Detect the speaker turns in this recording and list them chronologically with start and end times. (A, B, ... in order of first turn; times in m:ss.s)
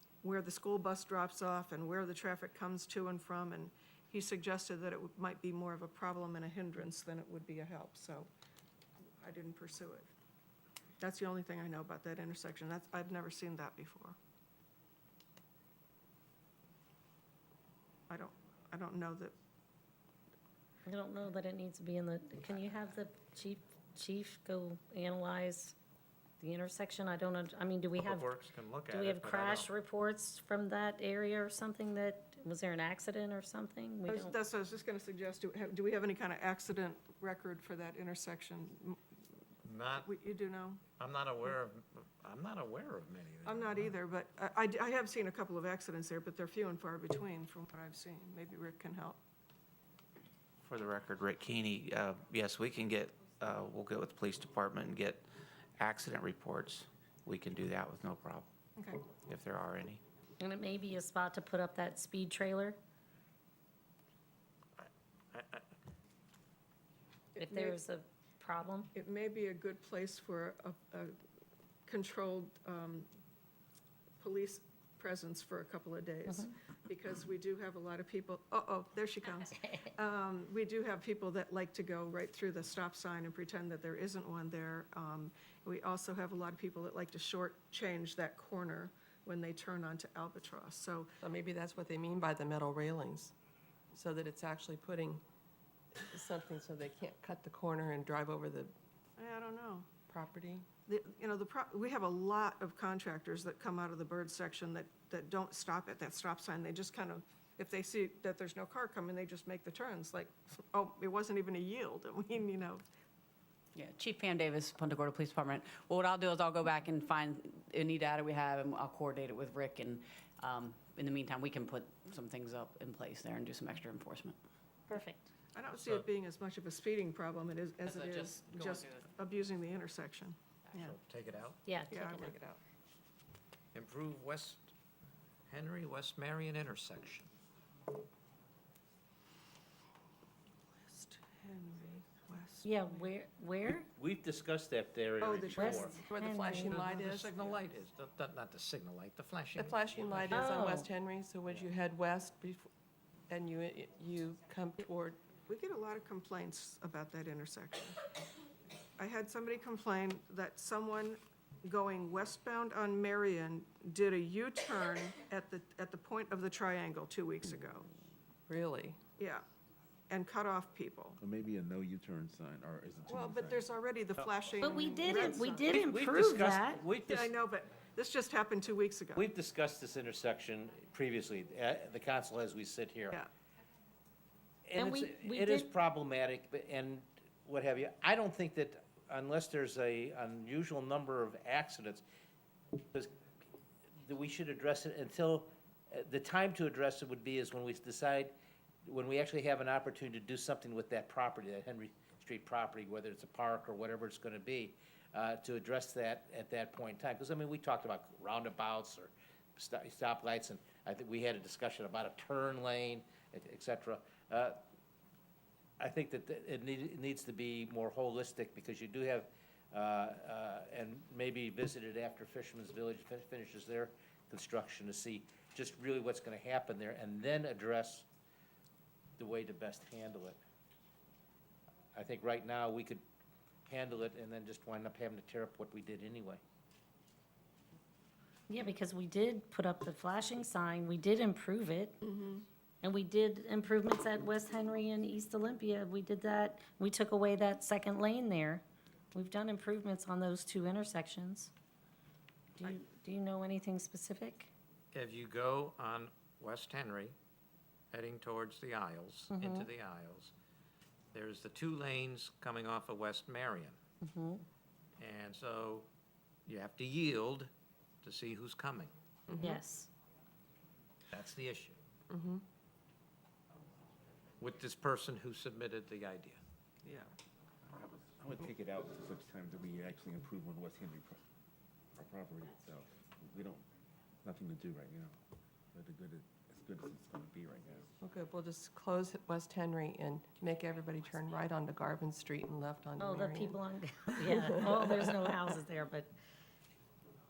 0:00.2-0:08.3 A
0:09.2-0:10.1 A
0:11.0-0:14.2 A
0:18.1-0:19.3 A
0:20.9-0:25.7 B
0:26.4-0:28.4 B
0:28.0-0:29.7 C
0:28.9-0:34.3 B
0:34.1-0:39.0 A
0:39.6-0:40.1 C
0:40.0-0:40.8 A
0:41.0-0:44.0 C
0:43.4-0:49.2 A
0:50.6-0:55.2 D
0:55.8-0:58.5 D
0:59.2-1:00.0 D
1:00.4-1:02.8 B
1:04.8-1:05.6 C
1:07.4-1:08.9 B
1:07.4-1:07.8 A
1:08.9-1:11.2 A
1:11.9-1:13.1 A
1:14.2-1:31.1 A
1:16.3-1:16.5 B
1:31.2-1:33.3 E
1:33.9-1:35.2 E
1:35.9-1:38.7 E
1:39.2-1:39.9 A
1:40.1-1:40.7 E
1:40.8-1:52.8 A
1:53.8-2:04.4 F
2:04.9-2:05.3 B
2:05.5-2:11.0 A
2:05.8-2:06.0 C
2:08.1-2:08.4 F
2:10.8-2:11.6 C
2:11.6-2:12.3 B
2:11.9-2:12.6 A
2:13.7-2:14.7 C
2:15.5-2:17.3 C
2:20.8-2:22.6 E
2:22.6-2:23.9 B
2:23.7-2:26.0 G
2:25.2-2:27.8 E
2:25.3-2:25.8 A
2:25.6-2:26.8 B
2:26.6-2:30.5 C
2:29.6-2:32.7 E
2:30.3-2:30.9 B
2:33.3-2:35.2 E
2:35.5-2:38.0 A
2:39.0-2:47.9 A
2:48.5-2:49.0 E
2:49.2-2:49.4 A
2:50.1-2:51.2 A
2:51.2-2:53.6 H
2:53.1-2:55.7 A
2:54.6-2:56.8 B
2:55.1-2:57.3 G
2:57.1-2:59.2 A
2:59.1-3:03.2 G
3:04.7-3:12.0 G
3:04.8-3:05.7 B
3:14.0-3:18.3 G
3:18.8-3:34.6 G
3:35.8-3:48.1 G
3:49.2-3:50.4 G
3:51.9-3:53.0 G
3:53.7-3:56.4 G
3:58.5-4:02.0 B
4:02.0-4:02.4 A
4:02.8-4:11.5 B
4:12.6-4:14.5 B
4:14.9-4:17.1 C
4:17.9-4:20.3 C
4:19.3-4:19.7 B
4:21.1-4:23.8 C
4:24.0-4:24.4 B
4:25.0-4:25.9 C
4:26.4-4:27.5 C
4:28.0-4:28.9 C
4:29.3-4:29.6 E
4:29.4-4:29.9 B
4:31.1-4:31.8 C
4:32.1-4:32.4 E
4:34.4-4:36.4 C
4:36.8-4:37.1 A
4:37.6-4:41.2 H
4:42.0-4:43.6 H
4:44.2-4:45.2 H
4:45.7-4:47.9 H
4:48.0-4:55.5 E
4:53.0-4:56.1 B